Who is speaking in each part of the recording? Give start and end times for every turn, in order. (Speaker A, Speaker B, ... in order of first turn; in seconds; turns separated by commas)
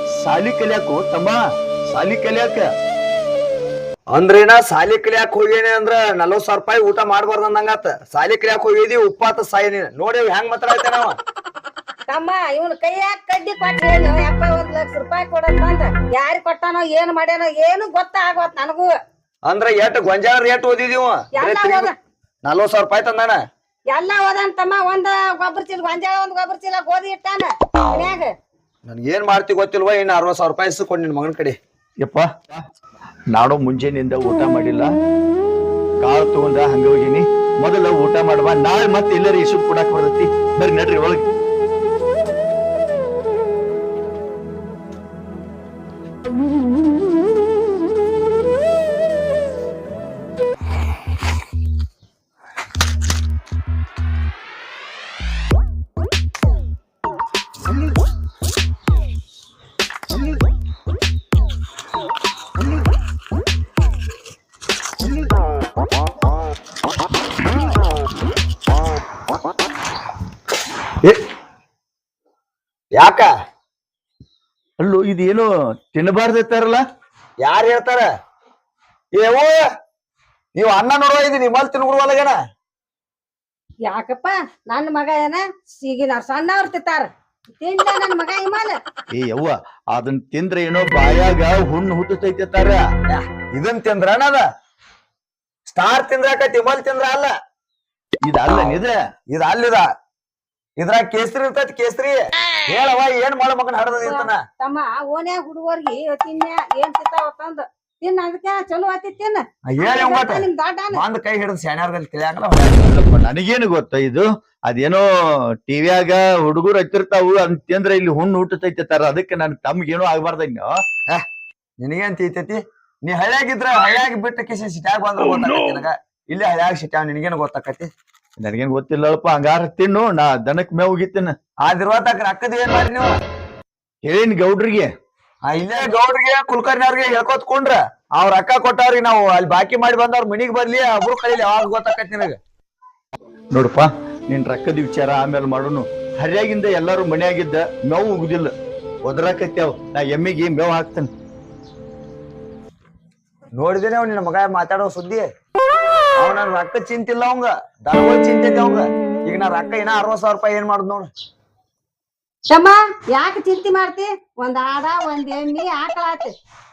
Speaker A: 0.2-1.4, Speaker A: 1.9-2.7, Speaker B: 4.1-11.2, Speaker C: 12.1-18.9, Speaker B: 19.5-21.9, Speaker C: 21.3-21.9, Speaker B: 22.4-23.4, Speaker C: 23.9-28.3, Speaker B: 28.9-31.6, Speaker A: 32.0-32.6, Speaker A: 33.3-34.9, Speaker A: 36.0-41.2, Speaker B: 73.0-73.3, Speaker A: 74.8-76.8, Speaker B: 77.4-78.1, Speaker B: 79.2-79.6, Speaker B: 80.5-82.4, Speaker C: 83.8-88.8, Speaker A: 89.1-92.8, Speaker B: 93.1-94.4, Speaker B: 95.7-97.3, Speaker A: 98.2-99.0, Speaker B: 99.3-99.8, Speaker B: 100.8-104.4, Speaker C: 104.0-111.0, Speaker B: 109.7-112.9, Speaker A: 112.8-115.0, Speaker A: 115.7-120.8, Speaker B: 121.8-127.9, Speaker A: 128.4-131.3, Speaker B: 131.6-133.2, Speaker A: 134.0-134.9, Speaker B: 135.4-142.4, Speaker A: 143.5-148.5, Speaker A: 149.0-151.1, Speaker B: 153.6-155.3, Speaker B: 156.2-161.1, Speaker C: 162.5-166.3